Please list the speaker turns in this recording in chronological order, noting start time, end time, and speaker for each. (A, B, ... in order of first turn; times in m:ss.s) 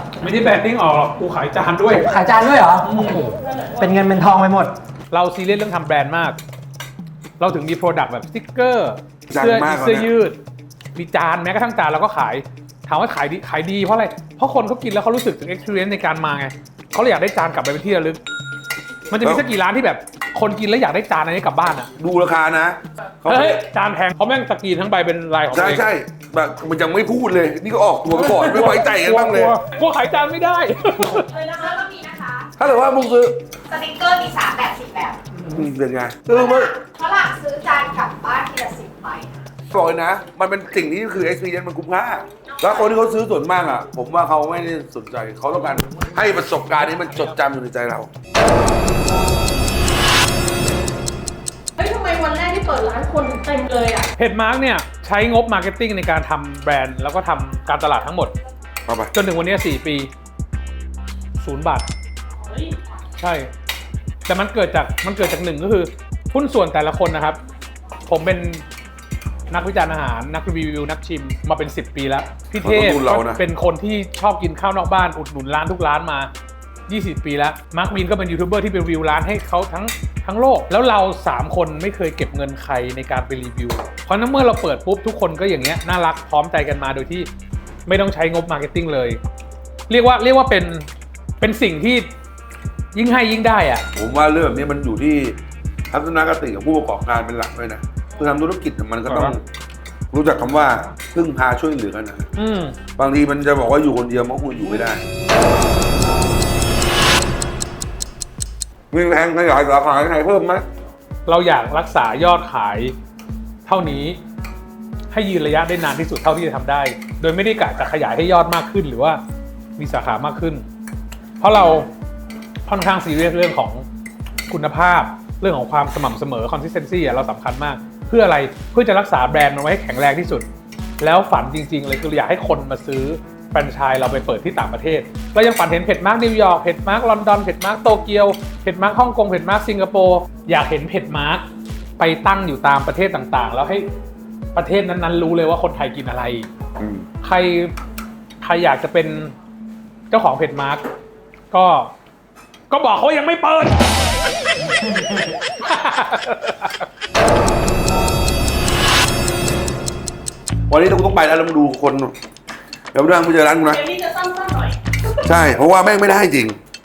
0:00.2-0:02.1 A
0:02.0-0:04.7 B
0:02.9-0:03.3 A
0:05.1-0:06.4 A
0:07.4-0:10.4 A
0:09.3-0:10.1 C
0:11.0-0:18.2 A
0:19.1-0:21.9 A
0:22.0-0:23.6 C
0:23.2-0:25.9 A
0:25.5-0:29.6 C
0:28.2-0:31.3 A
0:31.3-0:32.5 D
0:32.6-0:33.4 C
0:33.7-0:35.2 D
0:35.5-0:36.8 C
0:36.3-0:39.4 D
0:39.7-0:48.1 C
0:46.5-0:47.2 A
0:51.8-0:54.1 E
0:54.2-0:58.3 A
0:59.1-1:00.1 A
1:01.4-1:01.9 A
1:02.5-1:02.8 E
1:03.2-1:03.5 A
1:04.3-1:07.4 A
1:08.1-1:08.6 A
1:09.5-1:16.3 A
1:12.6-1:13.4 C
1:16.9-1:27.3 A
1:27.9-1:29.2 A
1:29.9-1:30.9 A
1:31.4-1:32.1 A
1:32.9-1:33.9 A
1:34.0-1:35.4 C
1:35.9-1:39.4 C
1:39.1-1:39.4 A
1:40.1-1:42.3 C
1:42.4-1:42.8 A
1:43.0-1:45.0 C
1:48.9-1:50.6 C
1:51.3-1:52.9 A
1:53.7-1:54.2 A
1:55.1-1:59.2 A
1:59.8-2:00.7 A
2:01.4-2:01.9 A
2:02.7-2:03.8 A
2:04.5-2:10.5 A
2:11.0-2:21.4 A
2:22.0-2:23.9 A
2:24.6-2:26.5 A
2:26.8-2:27.1 C
2:27.2-2:27.7 A
2:28.4-2:29.3 A
2:30.1-2:30.8 A
2:31.5-2:31.9 A
2:32.7-2:34.0 A
2:34.7-2:36.9 A
2:40.7-2:42.1 C
2:42.9-2:43.8 C
2:43.7-2:44.8 E
2:45.2-2:46.6 C